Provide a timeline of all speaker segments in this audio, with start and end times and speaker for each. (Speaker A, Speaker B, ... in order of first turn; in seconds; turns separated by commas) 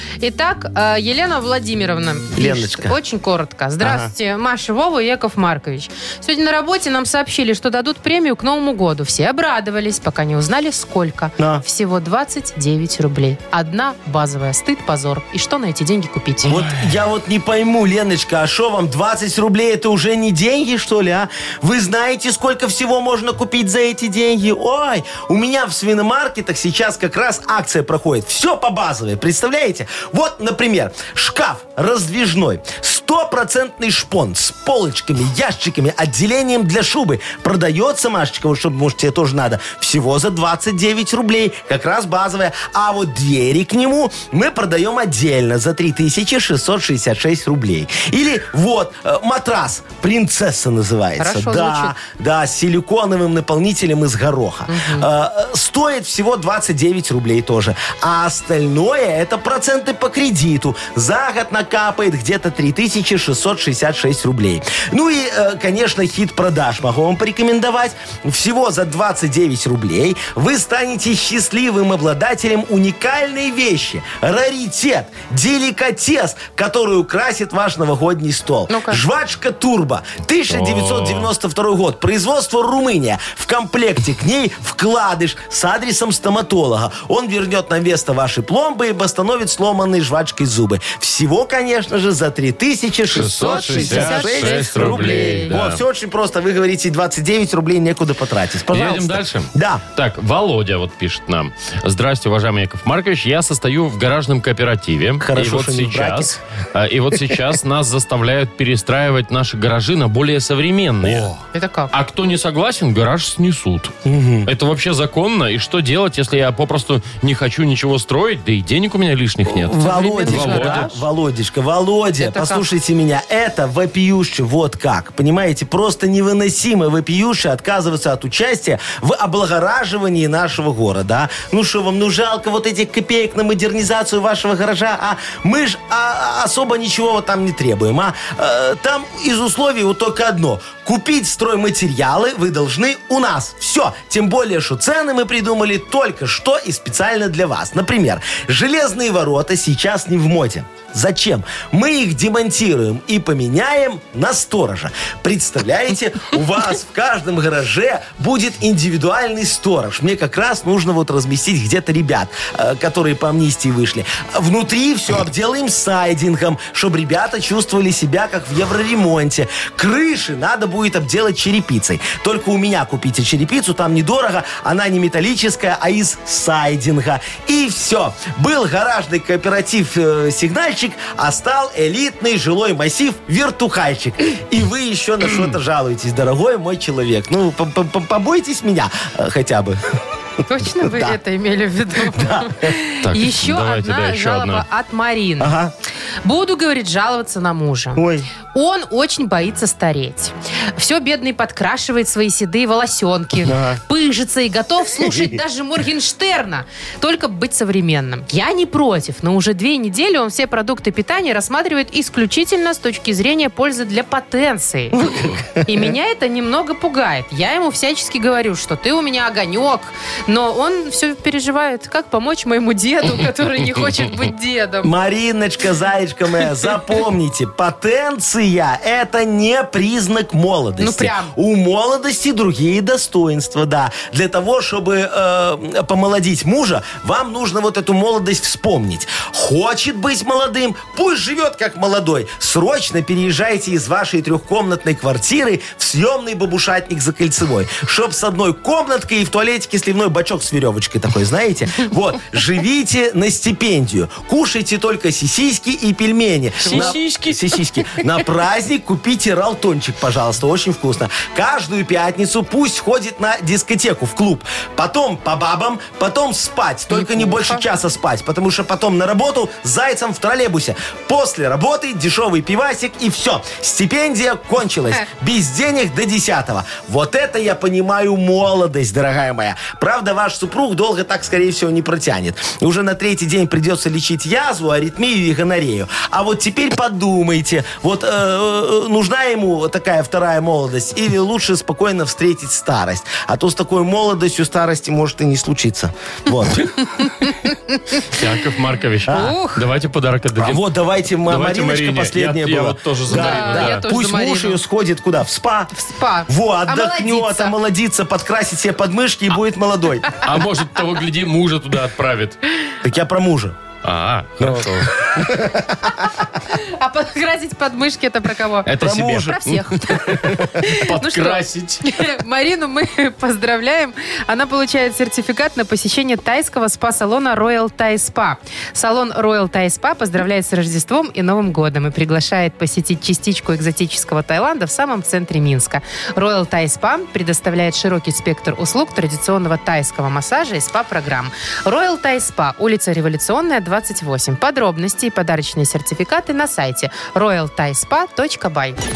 Speaker A: 0.2-16.5, Speaker B: 2.3-3.0, Speaker B: 3.8-4.1, Speaker B: 11.4-11.6, Speaker B: 16.5-99.8, Speaker C: 16.5-16.8, Speaker A: 51.2-51.9, Speaker A: 54.7-55.1, Speaker A: 78.7-79.0, Speaker C: 80.5-81.3, Speaker C: 93.1-95.8, Speaker A: 93.4-95.5, Speaker C: 98.7-111.4, Speaker B: 105.2-106.4, Speaker B: 111.0-111.3, Speaker A: 111.5-111.9, Speaker C: 111.9-121.0, Speaker B: 114.0-114.5, Speaker B: 119.5-189.8, Speaker A: 119.8-120.9, Speaker A: 122.2-122.6, Speaker A: 190.5-195.5, Speaker B: 190.8-191.2, Speaker B: 192.0-192.8, Speaker C: 193.0-194.6, Speaker B: 195.4-195.7, Speaker A: 196.2-215.0, Speaker B: 197.9-198.3, Speaker B: 203.4-203.8, Speaker B: 204.9-205.4, Speaker B: 214.9-215.9, Speaker A: 215.6-224.9, Speaker B: 224.8-296.7, Speaker A: 230.8-231.3, Speaker C: 256.6-258.2, Speaker A: 266.9-267.6, Speaker A: 297.0-298.0, Speaker C: 298.1-300.7, Speaker A: 299.1-299.6, Speaker B: 300.4-305.7, Speaker C: 301.2-303.9, Speaker A: 303.1-304.6, Speaker A: 305.7-307.6, Speaker B: 306.3-310.1, Speaker C: 310.2-312.4, Speaker B: 312.8-313.6, Speaker C: 313.8-315.3, Speaker B: 314.4-316.1, Speaker A: 316.5-348.8, Speaker C: 318.6-322.0, Speaker B: 318.8-319.4